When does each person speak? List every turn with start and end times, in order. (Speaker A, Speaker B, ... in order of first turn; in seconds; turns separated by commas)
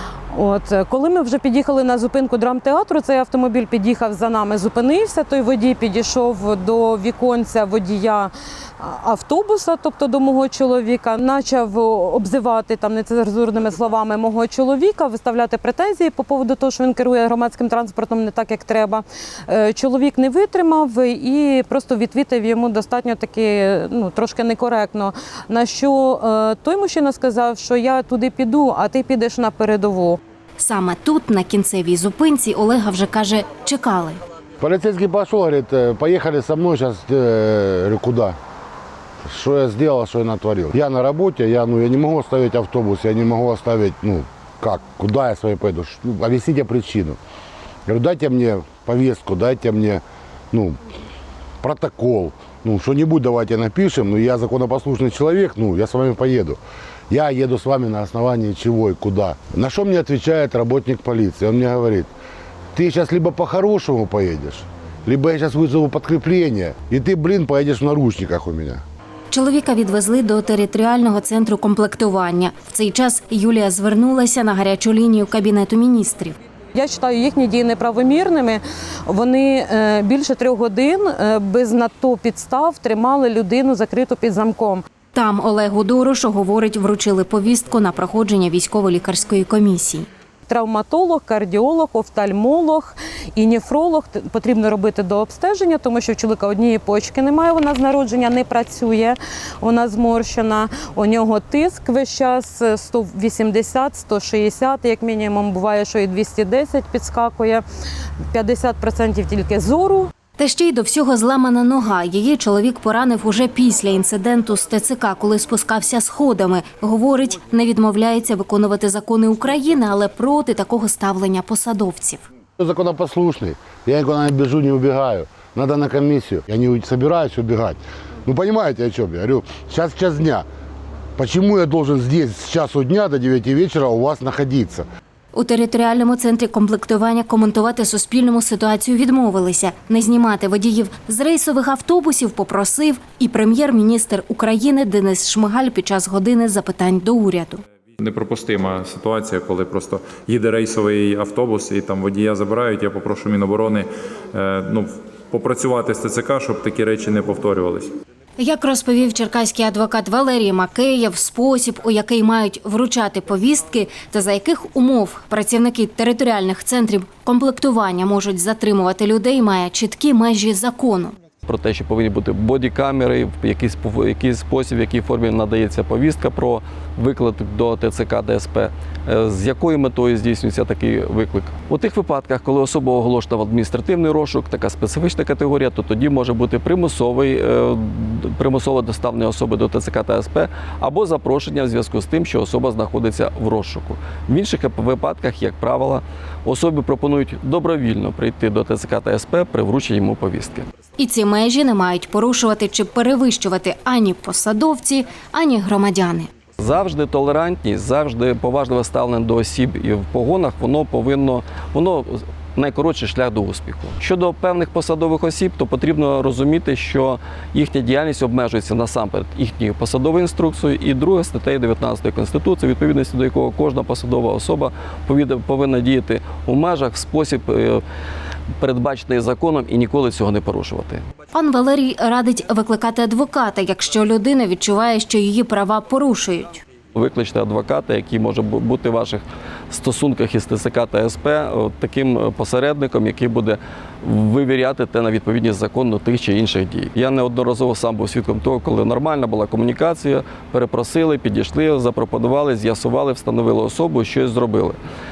Speaker A: 0.3-30.2, Speaker B: 30.6-34.2, Speaker C: 34.6-38.4, Speaker C: 39.2-47.2, Speaker C: 47.9-50.8, Speaker C: 51.6-56.6, Speaker C: 57.1-62.1, Speaker C: 62.7-68.8, Speaker B: 69.3-76.4, Speaker A: 76.7-84.8, Speaker B: 85.1-90.1, Speaker A: 90.5-107.6, Speaker A: 108.3-110.1, Speaker B: 110.4-122.2, Speaker C: 122.6-130.4, Speaker C: 131.2-134.8, Speaker B: 135.3-147.6, Speaker D: 148.0-157.9, Speaker B: 158.4-171.1, Speaker E: 171.5-200.7, Speaker B: 201.0-206.3, Speaker E: 206.6-227.8, Speaker E: 228.6-231.0, Speaker B: 231.3-236.6, Speaker E: 236.9-254.8